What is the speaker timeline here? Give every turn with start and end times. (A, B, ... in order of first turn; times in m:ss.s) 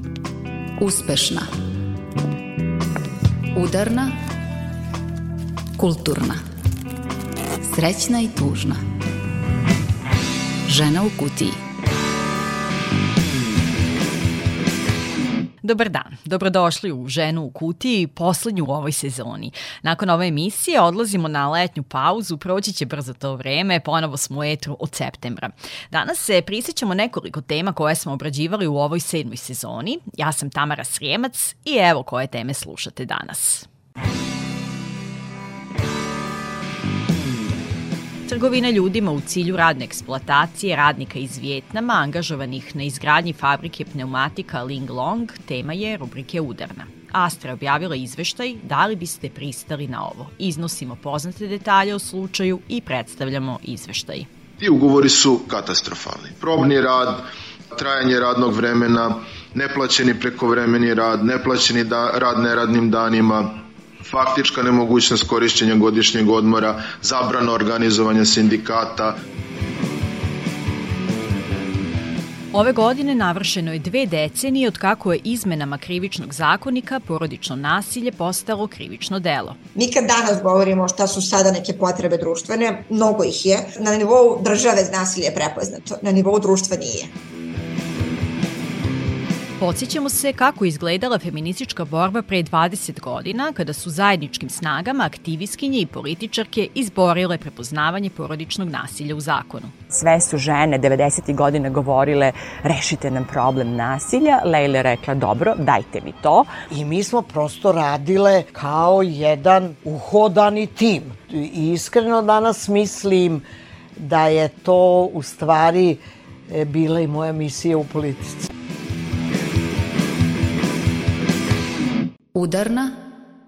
0:00.8-0:01.5 A
0:03.5-0:04.1 A
0:05.8-0:06.4 A
0:07.6-0:08.8 A
0:10.7-0:11.6 A
0:15.6-0:33.7 B
0:38.3-0:54.3 B
0:54.6-1:09.2 C
1:12.5-1:19.6 B
1:19.8-1:27.1 D
1:29.6-1:39.7 B
1:39.9-1:46.5 E
1:46.7-1:53.4 F
1:54.0-1:58.5 F
2:02.3-2:02.9 A